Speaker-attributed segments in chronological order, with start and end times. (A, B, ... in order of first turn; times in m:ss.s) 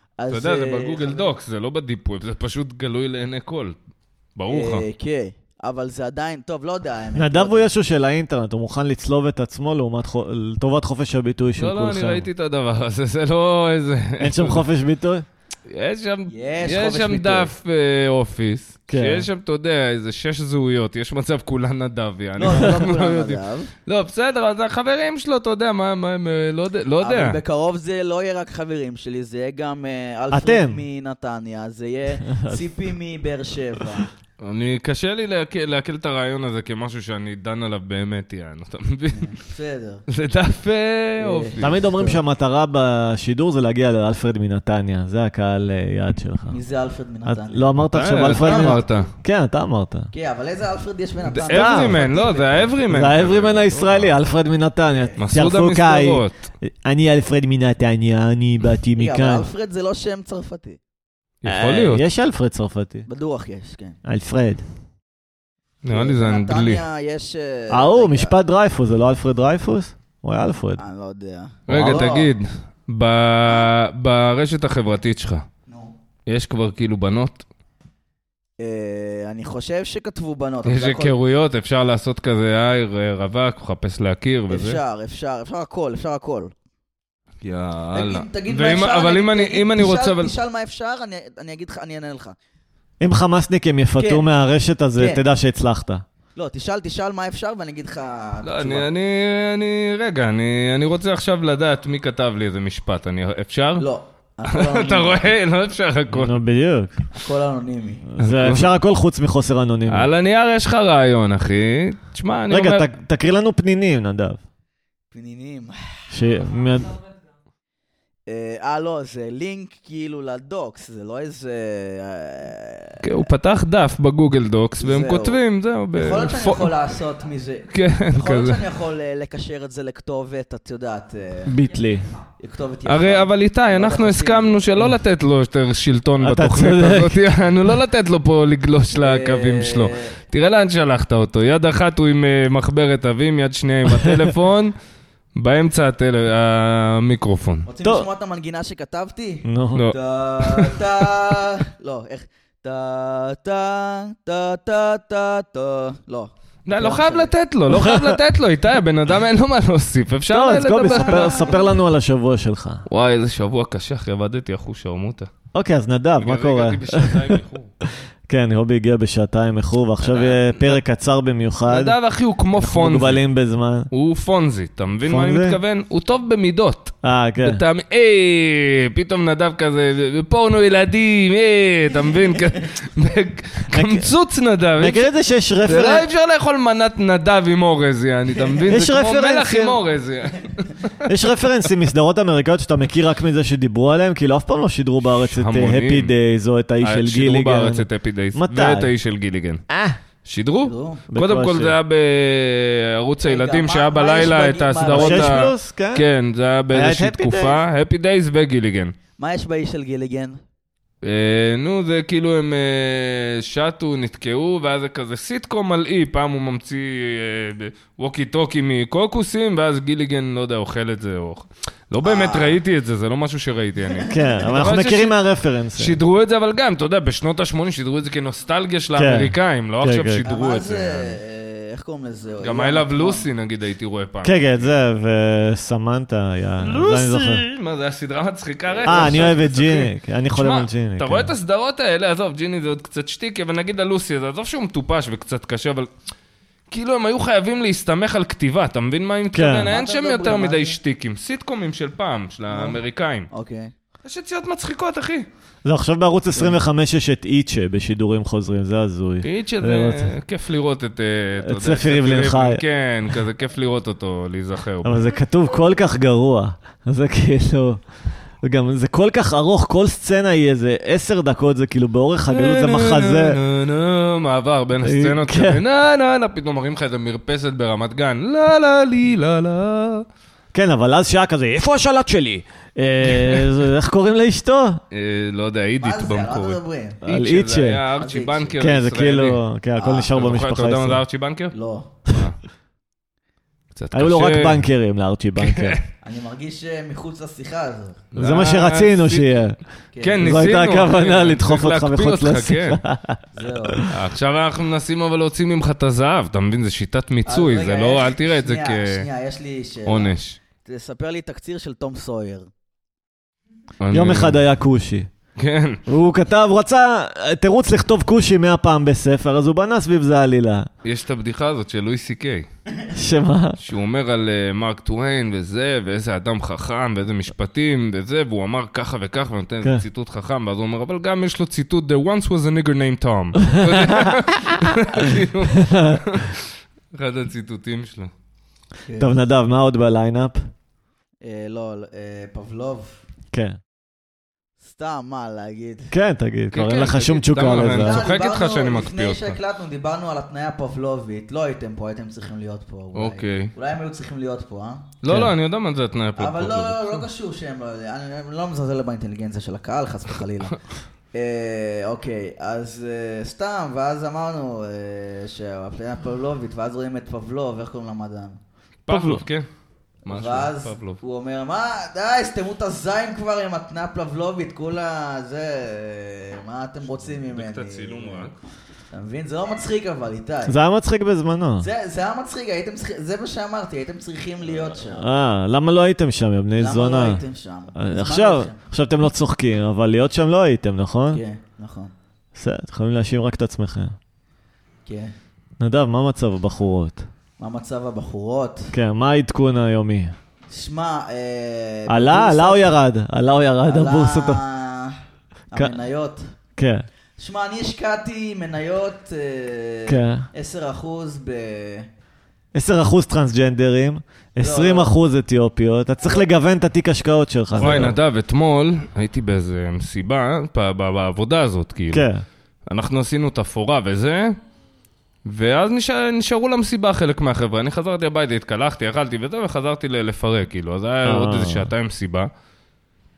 0:00.2-0:01.3 A
0:00.3-0:03.8 B
0:04.4-0:04.8 B
0:04.5-0:07.7 A
0:07.2-0:12.3 C
0:11.6-0:14.6 B
0:14.2-0:15.2 C
0:15.7-0:27.4 B
0:16.3-0:17.5 A
0:18.9-0:19.3 C
0:22.4-0:23.7 A
0:27.0-0:34.1 A
0:30.3-0:30.8 C
0:32.2-0:32.6 C
0:34.4-0:39.4 B
0:39.1-0:40.0 A
0:40.1-0:41.7 B
0:41.2-0:42.2 A
0:41.6-0:46.6 C
0:46.5-0:48.8 A
0:47.3-0:50.1 C
0:47.9-0:49.1 B
0:50.1-0:52.7 A
0:51.3-0:54.1 B
0:51.5-0:52.0 C
0:52.9-0:59.5 C
0:54.9-0:55.2 A
0:55.2-0:56.3 B
0:59.0-1:00.8 A
1:01.4-1:02.0 B
1:01.5-1:03.1 C
1:03.1-1:04.0 A
1:04.0-1:04.6 C
1:05.8-1:06.8 B
1:05.9-1:08.4 A
1:07.7-1:10.8 C
1:10.8-1:12.4 A
1:11.7-1:15.4 B
1:11.7-1:12.0 C
1:15.7-1:15.9 A
1:16.3-1:17.4 B
1:18.6-1:21.2 A
1:20.6-1:24.8 B
1:24.5-1:26.5 A
1:27.4-1:30.3 B
1:27.9-1:32.4 A
1:33.0-1:36.0 C
1:34.0-1:34.3 A
1:35.0-1:35.2 A
1:36.4-1:38.9 A
1:38.4-1:43.8 B
1:43.8-1:45.2 A
1:44.5-1:46.4 B
1:46.1-1:47.0 C
1:47.1-1:48.1 A
1:48.1-1:50.1 C
1:48.2-1:48.7 B
1:49.9-1:52.9 B
1:52.5-1:54.4 C
1:55.1-1:56.1 A
1:56.1-1:57.0 C
1:58.3-2:03.1 A
2:03.0-2:06.8 B
2:04.8-2:05.4 A
2:05.9-2:11.6 A
2:07.7-2:08.6 B
2:11.5-2:12.1 C
2:12.4-2:14.7 A
2:12.9-2:24.7 B
2:16.2-2:17.2 C
2:19.0-2:20.1 A
2:25.4-2:27.7 B
2:27.7-2:37.3 A
2:29.4-2:29.9 C
2:29.8-2:30.9 B
2:36.7-2:41.6 B
2:37.7-2:38.2 C
2:40.3-2:42.8 C
2:41.0-2:41.6 A
2:42.9-2:45.3 B
2:45.5-2:52.0 C
2:46.2-2:47.7 B
2:50.0-2:50.8 B
2:51.7-2:53.2 B
2:52.6-2:53.9 C
2:53.9-3:05.1 B
2:55.0-2:55.6 C
2:57.0-2:57.6 C
3:03.7-3:04.1 C
3:04.8-3:06.1 C
3:05.6-3:11.0 B
3:08.7-3:09.8 C
3:11.1-3:18.9 C
3:15.2-3:16.1 B
3:16.8-3:19.6 B
3:19.7-3:20.0 C
3:20.2-3:28.9 B
3:20.6-3:21.0 A
3:21.1-3:21.8 C
3:23.2-3:25.4 A
3:24.9-3:26.1 C
3:26.7-3:27.6 C
3:29.2-3:30.4 A
3:31.0-3:45.2 B
3:42.0-3:42.6 A
3:43.9-3:44.4 A
3:44.1-3:46.0 C
3:45.8-3:51.2 B
3:49.0-3:50.3 C
3:50.2-3:53.3 A
3:52.4-3:54.7 B
3:54.2-3:57.4 C
3:56.6-4:05.9 B
3:58.7-3:59.3 A
3:58.8-4:01.3 C
4:06.7-4:13.3 B
4:09.3-4:09.7 C
4:09.7-4:10.8 A
4:12.5-4:13.7 A
4:14.0-4:15.3 B
4:15.6-4:20.1 C
4:19.2-4:25.1 B
4:21.4-4:22.6 C
4:24.8-4:27.8 C
4:28.4-4:33.4 C
4:32.3-4:40.0 B
4:34.8-4:35.6 C
4:40.5-4:44.8 C
4:44.9-4:49.4 B
4:45.8-4:47.0 A
4:47.0-4:47.8 C
4:48.0-4:48.6 A
4:48.6-4:51.0 C
4:49.8-4:50.1 A
4:50.0-4:51.6 B
4:51.5-4:51.9 A
4:52.1-4:52.4 B
4:53.7-4:54.6 B
4:53.9-4:55.8 C
4:55.4-4:55.8 B
4:56.0-4:58.0 A
4:58.1-4:59.3 B
4:58.2-4:59.6 C
4:59.9-5:00.4 A
5:00.0-5:02.8 B
5:00.2-5:03.9 C
5:03.3-5:03.9 A
5:03.9-5:09.1 B
5:07.3-5:12.5 A
5:09.9-5:10.4 B
5:13.8-5:14.4 B
5:13.9-5:15.1 C
5:15.4-5:15.8 B
5:15.9-5:20.7 C
5:20.8-5:22.5 B
5:22.9-5:23.6 C
5:23.6-5:38.1 B
5:33.5-5:34.2 C
5:34.7-5:35.0 C
5:35.6-5:36.0 C
5:38.9-5:39.1 A
5:39.0-5:40.4 C
5:41.2-5:42.9 A
5:43.3-5:43.6 C
5:44.6-5:45.9 A
5:45.9-5:48.0 C
5:46.5-5:49.4 B
5:47.7-5:54.9 A
5:53.0-5:53.5 B
5:55.0-5:57.0 B
5:55.1-5:55.3 C
5:56.2-6:00.6 A
6:01.1-6:08.4 A
6:08.9-6:09.5 B
6:08.9-6:09.2 C
6:10.0-6:11.0 B
6:10.1-6:18.3 A
6:17.3-6:18.4 B
6:18.9-6:20.6 A
6:20.5-6:21.7 C
6:21.6-6:25.1 A
6:24.9-6:27.2 C
6:26.6-6:28.6 A
6:27.8-6:31.2 C
6:31.1-6:31.9 A
6:32.4-6:34.0 C
6:34.9-6:35.1 A
6:35.6-6:37.0 C
6:37.4-6:38.7 A
6:38.7-6:40.1 C
6:40.5-6:42.7 A
6:41.9-6:44.4 C
6:43.6-6:45.0 A
6:45.5-6:46.3 A
6:46.6-6:46.8 C
6:47.2-6:51.9 A
6:49.9-6:50.2 C
6:52.5-6:58.0 C
6:54.4-6:54.9 A
6:57.6-7:02.1 B
7:01.9-7:02.2 C
7:02.7-7:04.4 B
7:05.3-7:12.3 B
7:11.0-7:11.7 C